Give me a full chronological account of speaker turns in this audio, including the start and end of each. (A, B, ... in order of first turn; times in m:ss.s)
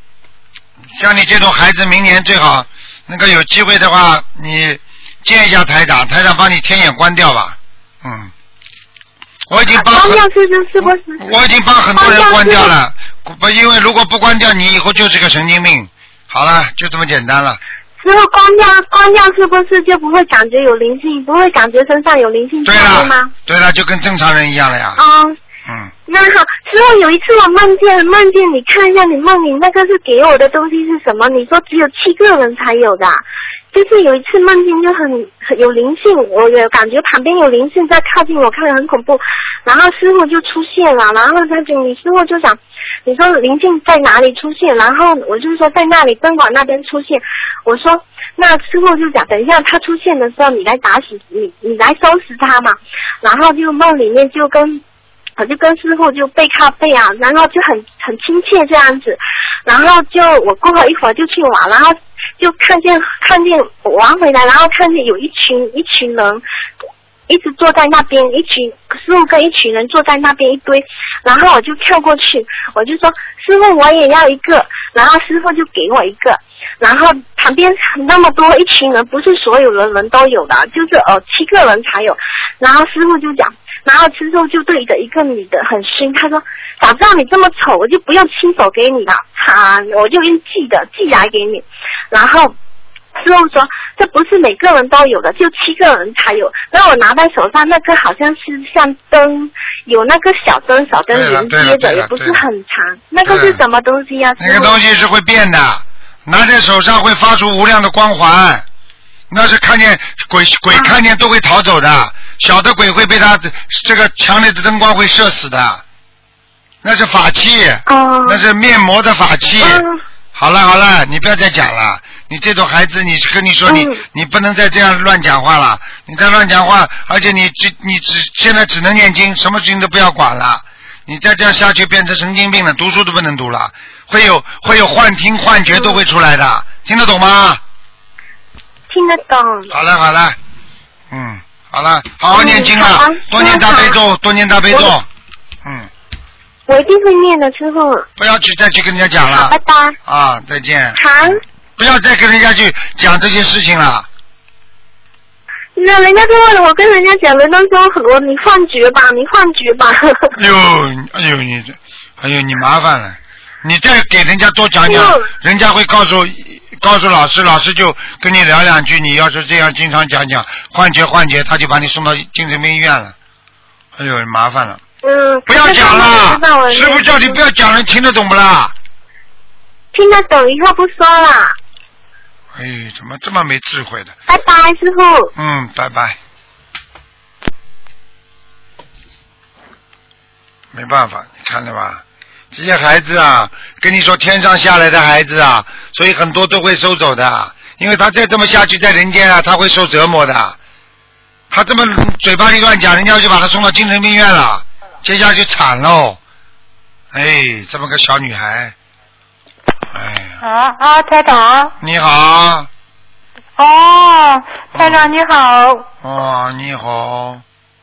0:00.9-0:08.3 A
0:09.5-0:10.2 A
0:09.7-0:11.2 B
0:10.8-0:17.6 A
0:11.9-0:12.7 B
0:18.0-0:23.3 B
0:22.6-0:25.0 A
0:25.0-0:25.4 B
0:25.6-0:25.9 A
0:26.1-0:54.8 B
0:55.4-1:06.4 B
1:07.3-1:32.5 B
1:33.2-1:44.8 B
1:41.1-1:42.4 A
1:43.2-1:43.6 A
1:44.4-1:48.6 A
1:49.3-1:55.8 A
1:50.7-1:51.0 B
1:56.8-2:17.6 A
1:57.8-1:58.4 B
1:59.6-2:00.0 B
2:03.6-2:04.0 B
2:15.7-2:16.0 B
2:18.9-2:19.7 B
2:19.7-2:20.4 A
2:21.1-2:25.0 A
2:22.3-2:24.0 B
2:24.7-2:25.0 B
2:25.6-2:25.9 A
2:26.7-2:28.1 B
2:28.2-2:31.0 A
2:29.3-2:30.0 B
2:30.9-2:31.4 B
2:31.8-2:34.0 A
2:35.8-2:40.4 B
2:40.3-2:53.1 A
2:44.8-2:45.3 B
2:54.0-2:54.8 A
2:55.0-2:57.4 B
2:55.5-2:58.7 A
2:59.9-3:01.6 B
3:02.5-3:04.1 A
3:04.3-3:05.3 B
3:05.4-3:06.2 A
3:10.7-3:12.0 A
3:12.5-3:20.6 A
3:21.5-3:26.2 A
3:27.1-3:28.7 A
3:29.9-3:30.4 A
3:30.4-3:31.7 C
3:31.8-3:32.7 A
3:33.6-3:35.9 C
3:34.7-3:35.1 A
3:36.0-3:37.4 A